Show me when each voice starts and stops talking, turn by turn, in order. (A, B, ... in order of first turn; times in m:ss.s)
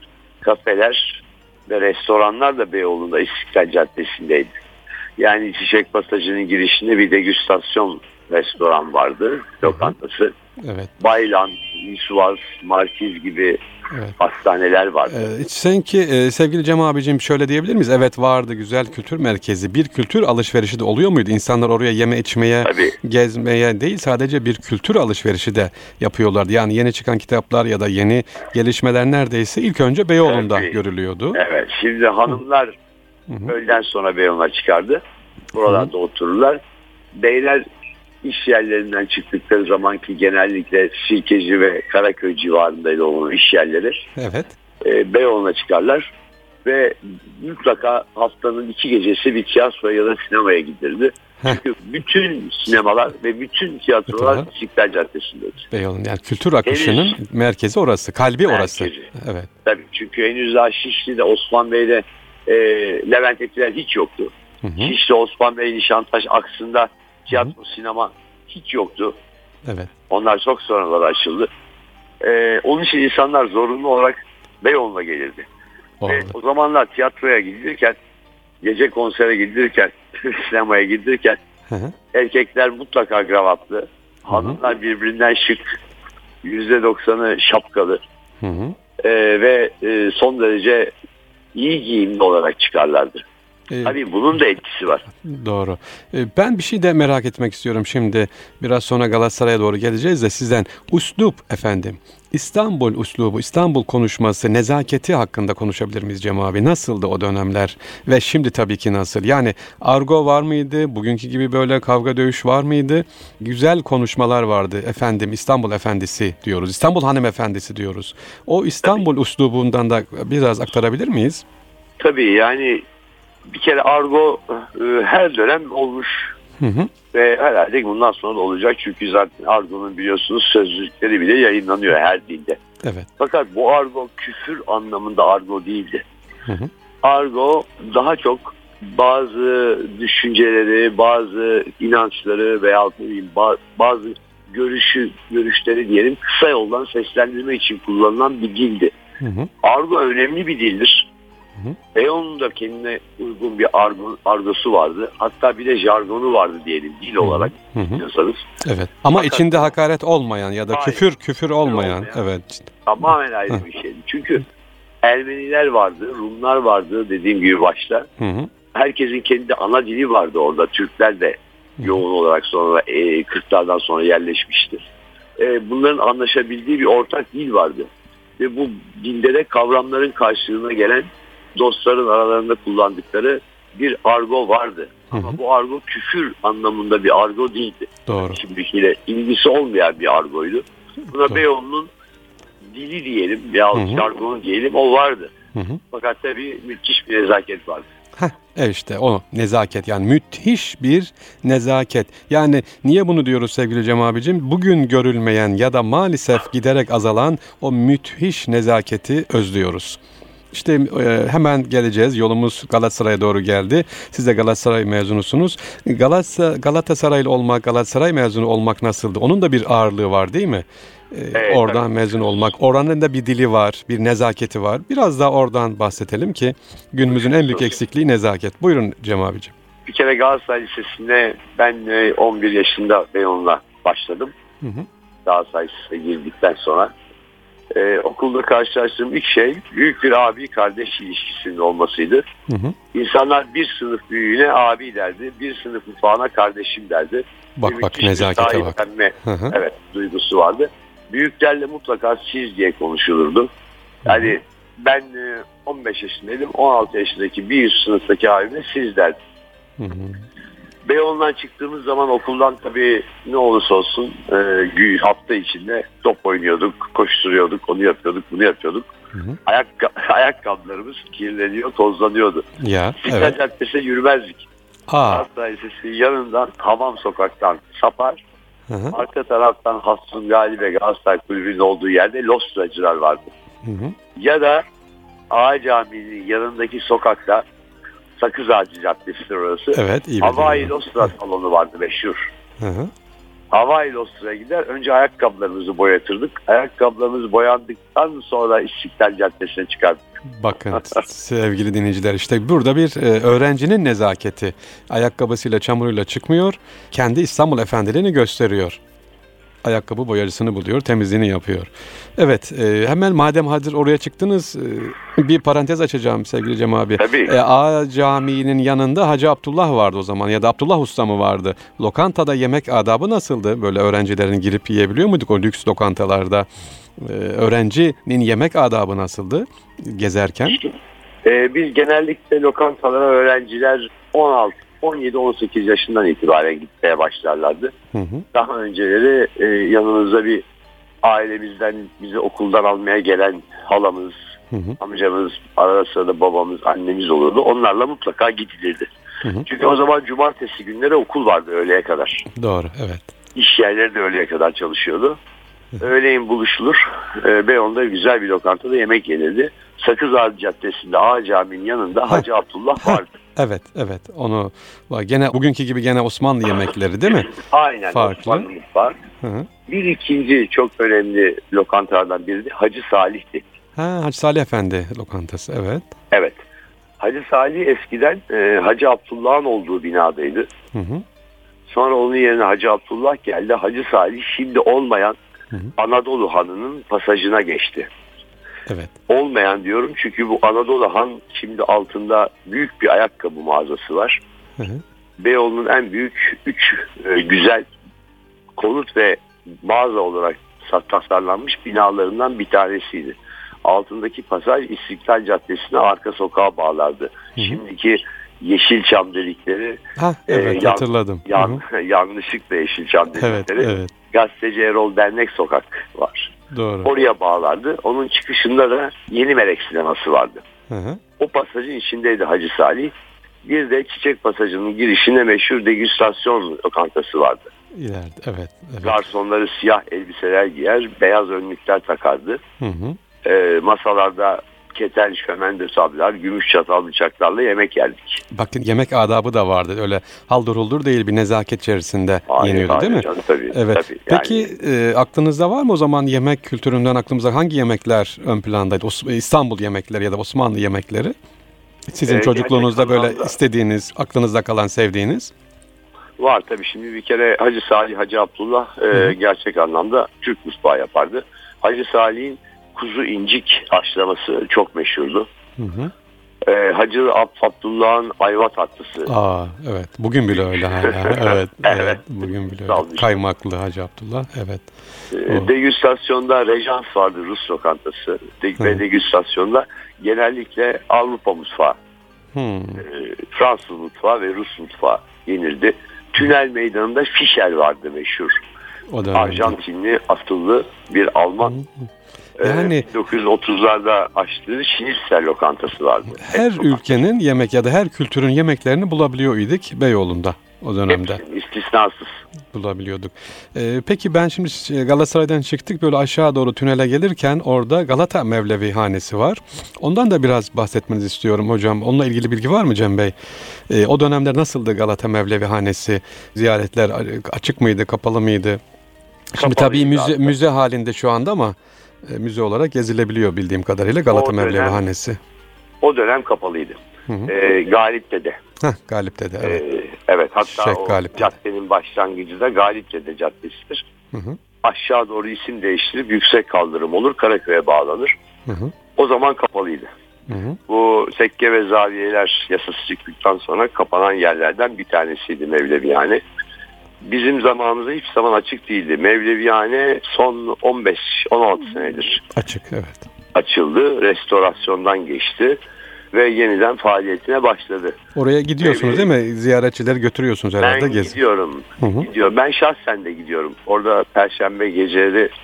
0:00.4-0:04.5 A
0:05.2-0:10.3 A
0:09.6-0:09.9 B
0:10.6-0:10.9 B
0:11.0-0:13.6 A
0:14.2-0:15.2 A
0:15.1-0:31.4 B
0:22.6-0:22.9 A
0:30.2-0:30.8 A
0:31.3-0:32.8 A
0:33.3-0:33.5 B
0:33.5-0:35.0 A
0:35.5-0:36.6 A
0:37.1-0:37.6 A
0:38.2-0:44.1 A
0:44.2-0:44.5 B
0:44.8-0:46.1 A
0:46.6-0:55.6 A
0:54.1-0:54.5 B
0:55.7-0:59.5 B
0:56.6-0:57.2 A
0:58.4-0:59.1 A
0:59.6-1:09.2 A
1:04.6-1:04.9 B
1:09.6-1:09.9 B
1:10.1-1:11.5 A
1:12.2-1:15.5 A
1:16.0-1:16.3 B
1:16.1-1:18.0 A
1:18.6-1:21.4 A
1:21.7-1:22.0 B
1:22.1-1:25.7 A
1:24.3-1:24.6 B
1:26.4-1:28.0 A
1:28.4-1:28.8 B
1:29.0-1:30.9 A
1:31.5-1:33.2 A
1:33.7-1:34.0 B
1:33.8-1:35.0 A
1:35.1-2:01.4 B
2:02.0-2:02.8 A
2:03.5-2:06.3 A
2:06.6-2:06.9 B
2:07.1-2:12.6 A
2:12.8-2:13.1 B
2:13.2-2:16.0 A
2:16.4-2:16.7 B
2:17.0-2:28.9 A
2:29.2-2:29.5 B
2:29.6-2:31.1 A
2:31.9-2:38.4 A
2:37.2-2:38.0 B
2:38.6-2:42.8 B
2:39.1-2:39.7 A
2:40.7-2:41.0 A
2:41.6-2:42.2 A
2:42.8-2:44.4 A
2:45.0-2:48.1 A
2:48.2-2:48.5 B
2:48.7-2:54.9 A
2:55.4-3:11.9 A
3:05.1-3:05.4 B
3:08.0-3:08.4 B
3:12.7-3:15.3 A
3:13.7-3:14.0 B
3:15.5-3:15.8 B
3:15.9-3:17.8 A
3:18.2-3:30.0 B
3:30.5-3:49.5 B
3:41.3-3:41.9 A
3:49.8-3:54.3 A
3:54.6-3:54.9 B
3:55.2-3:56.9 A
3:57.7-4:02.2 A
4:02.5-4:02.8 B
4:02.9-4:13.5 A
4:07.6-4:09.6 B
4:14.0-4:14.3 B
4:14.0-4:19.2 A
4:19.8-4:20.2 B
4:20.8-4:28.8 A
4:29.1-4:29.4 B
4:29.4-4:32.4 A
4:32.6-4:33.4 B
4:33.0-4:34.4 A
4:34.9-4:35.2 B
4:35.0-4:38.2 A
4:38.7-4:39.0 B
4:38.9-4:43.3 A
4:43.6-4:44.0 B
4:44.1-4:44.6 A
4:45.3-4:47.4 A
4:48.2-4:52.3 A
4:49.7-4:50.7 B
4:52.6-4:52.9 B
4:53.5-5:00.0 A
5:00.4-5:08.8 B
5:09.6-5:30.6 B
5:17.0-5:17.3 A
5:31.2-5:37.7 A
5:37.9-5:38.2 B
5:38.3-5:40.4 A
5:41.0-5:44.2 A
5:44.5-5:44.8 B
5:44.8-5:48.9 A
5:49.2-5:49.5 B
5:49.4-5:52.2 A
5:52.3-5:53.1 B
5:53.3-5:55.2 A
5:55.8-6:03.1 A
6:02.8-6:07.3 B
6:07.3-6:09.0 A
6:07.9-6:08.5 B
6:09.2-6:09.5 B
6:09.6-6:13.4 A
6:13.8-6:15.9 B
6:16.1-6:16.4 A
6:17.0-6:20.5 A
6:20.7-6:21.0 B
6:21.7-6:25.2 A
6:25.8-6:27.9 A
6:28.7-6:29.0 B
6:29.1-6:34.2 A
6:34.6-6:34.8 B
6:35.2-6:37.7 A
6:38.6-6:56.3 A
6:47.4-6:47.6 B
6:50.0-6:51.6 B
6:53.2-6:53.9 B
6:56.5-6:56.9 B
6:56.8-7:00.4 A
7:00.7-7:01.0 B
7:01.2-7:07.5 A
7:07.7-7:09.0 B
7:08.8-7:12.4 A
7:12.6-7:13.0 B
7:13.2-7:18.2 A
7:18.3-7:31.1 B
7:22.3-7:24.5 A
7:31.9-7:35.3 B
7:32.0-7:33.3 A
7:36.2-7:45.2 A
7:45.6-7:45.9 B
7:46.4-7:49.1 A
7:49.0-7:54.7 B
7:50.5-7:53.1 A
7:55.1-8:01.8 A
8:02.3-8:02.8 B
8:02.8-8:08.4 A
8:08.9-8:09.6 B
8:09.1-8:11.6 A
8:11.4-8:11.7 B
8:12.4-8:17.0 A
8:12.4-8:12.8 B
8:16.2-8:21.2 B
8:20.9-8:22.2 A
8:22.5-8:33.1 B
8:33.7-8:38.6 B
8:39.3-8:45.2 B
8:39.4-8:40.3 A
8:44.1-8:44.8 A
8:45.8-8:48.4 A
8:48.6-8:49.6 B
8:49.4-8:53.9 A
8:50.4-8:51.3 B
8:54.1-8:54.4 B
8:54.6-8:58.1 A
8:58.4-8:58.7 B
8:58.9-8:59.9 A
9:00.3-9:00.6 B
9:00.7-9:06.2 A
9:07.0-9:12.2 A
9:12.3-9:13.1 B
9:13.3-9:15.6 A
9:16.1-9:18.0 A
9:18.1-9:21.2 B
9:18.6-9:19.1 A
9:20.6-9:25.3 A
9:21.8-9:22.1 B